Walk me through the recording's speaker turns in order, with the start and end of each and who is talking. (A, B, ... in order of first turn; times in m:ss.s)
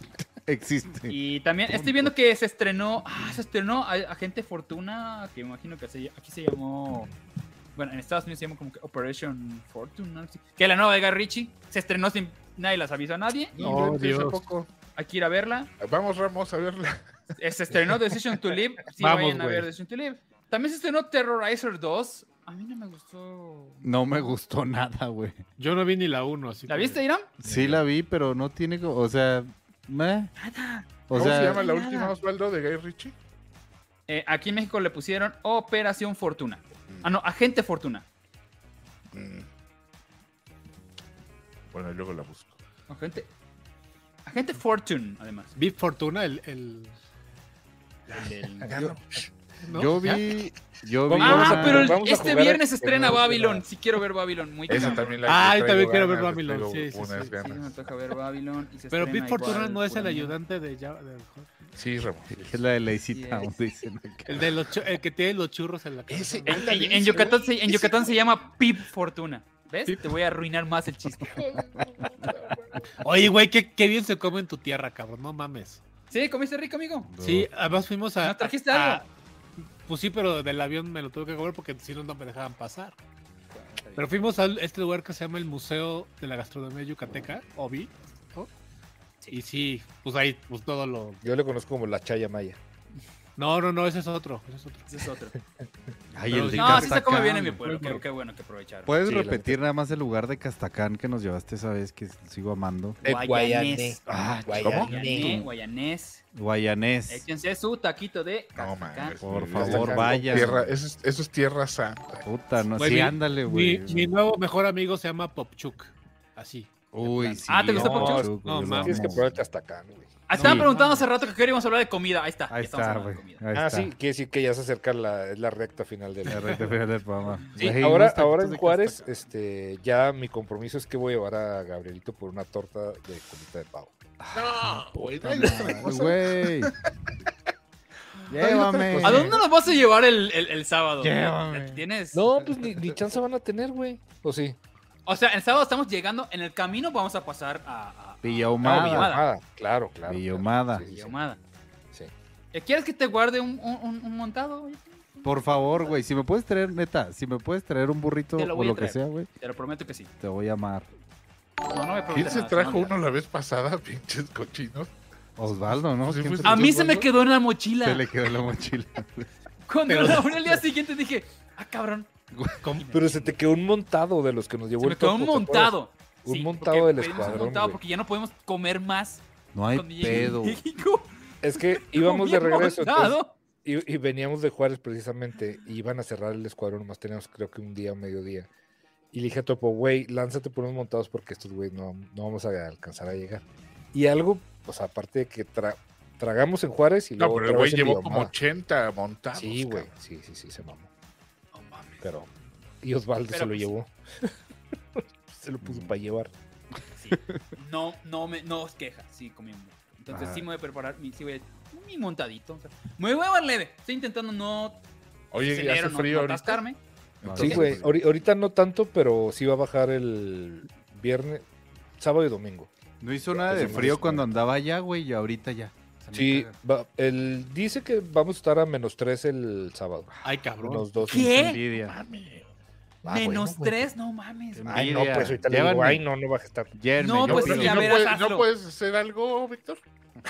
0:00.4-0:02.1 A
0:01.1-0:07.1 B
0:07.8-0:13.6 B
0:13.5-0:14.7 C
0:13.6-0:14.4 D
0:15.0-0:15.7 B
0:15.8-0:17.0 C
0:17.4-0:23.8 B
0:19.0-0:19.7 D
0:23.8-0:25.4 A
0:25.6-0:27.0 D
0:26.7-0:27.3 B
0:27.4-0:30.3 A
0:27.4-0:27.8 E
0:30.4-0:32.2 B
0:31.1-0:31.6 A
0:31.1-0:33.1 C
0:34.1-0:38.0 B
0:39.1-0:39.4 C
0:41.7-0:42.6 C
0:42.9-0:43.3 B
0:44.2-0:45.5 B
0:45.6-0:46.9 D
0:48.1-0:48.7 B
0:48.6-0:49.0 E
0:49.6-0:50.3 D
0:49.7-0:52.0 A
0:51.1-0:53.6 E
0:51.2-0:55.2 B
0:54.7-0:57.7 C
0:55.2-0:57.4 D
0:57.4-1:00.4 B
0:58.9-1:01.5 D
1:01.8-1:02.3 C
1:02.3-1:04.5 A
1:03.1-1:03.5 B
1:04.3-1:06.7 D
1:06.1-1:07.3 C
1:06.4-1:08.1 E
1:06.4-1:11.4 B
1:11.3-1:12.8 C
1:13.0-1:15.8 D
1:16.1-1:17.1 B
1:17.1-1:17.5 A
1:17.2-1:19.0 D
1:18.2-1:19.0 B
1:19.8-1:22.9 D
1:23.5-1:24.1 B
1:24.0-1:28.5 D
1:29.3-1:31.2 D
1:31.2-1:32.6 E
1:33.4-1:34.9 D
1:34.9-1:35.3 B
1:36.1-1:37.6 A
1:36.3-1:37.0 D
1:36.5-1:38.9 B
1:37.6-1:38.0 D
1:38.8-1:43.0 A
1:39.0-1:39.6 E
1:43.0-1:44.0 B
1:43.0-1:45.5 E
1:44.0-1:45.3 A
1:44.6-1:44.9 C
1:44.7-1:46.2 B
1:46.3-1:47.2 A
1:47.1-1:49.2 B
1:48.6-1:52.2 C
1:49.2-1:50.6 A
1:49.5-1:50.7 E
1:52.2-1:54.1 A
1:52.8-1:57.4 D
1:56.9-1:59.4 A
1:57.2-2:00.6 E
1:57.5-1:58.3 B
1:58.4-1:59.2 D
2:00.3-2:03.4 B
2:00.3-2:01.1 D
2:00.4-2:00.7 A
2:02.5-2:03.9 A
2:03.5-2:06.7 E
2:06.2-2:09.2 A
2:07.6-2:13.9 E
2:14.2-2:16.7 A
2:14.3-2:16.6 C
2:18.3-2:19.4 A
2:18.4-2:19.4 E
2:19.0-2:22.2 B
2:21.0-2:21.8 A
2:22.1-2:24.6 E
2:25.0-2:29.2 B
2:28.2-2:29.2 A
2:28.6-2:31.2 E
2:30.0-2:30.8 A
2:30.9-2:31.4 B
2:32.5-2:36.0 B
2:35.2-2:39.3 A
2:38.4-2:40.1 B
2:40.2-2:40.9 A
2:41.7-2:42.9 B
2:42.1-2:44.9 C
2:45.4-2:47.0 A
2:46.0-2:46.9 C
2:46.4-2:48.0 B
2:47.8-2:49.3 A
2:49.7-2:52.1 B
2:49.9-2:50.6 D
2:52.3-2:52.6 A
2:52.6-2:52.9 D
2:52.7-2:53.3 B
2:52.9-2:57.8 E
2:54.8-3:03.4 B
2:59.5-3:00.6 A
3:00.0-3:00.3 E
3:01.4-3:08.5 E
3:09.1-3:13.4 E
3:13.9-3:18.3 E
3:17.2-3:19.9 C
3:19.3-3:20.9 E
3:21.5-3:22.0 B
3:22.0-3:22.3 E
3:22.8-3:24.3 E
3:23.3-3:23.7 B
3:25.0-3:26.3 E
3:25.6-3:25.9 A
3:27.0-3:34.8 B
3:30.1-3:30.4 A
3:35.3-3:36.6 C
3:35.4-3:36.8 B
3:37.2-3:37.8 C
3:37.2-3:37.9 A
3:37.4-3:41.4 E
3:42.0-3:42.7 E
3:43.0-3:46.5 A
3:43.3-3:44.3 E
3:46.1-3:51.4 E
3:50.2-3:50.9 D
3:51.0-3:51.6 B
3:51.1-3:52.0 A
3:51.7-3:52.5 C
3:53.0-3:53.8 E
3:53.0-3:54.9 B
3:54.6-3:56.0 A
3:54.6-3:56.7 E
3:56.7-3:57.9 A
3:57.0-3:58.5 B
3:57.3-3:59.8 C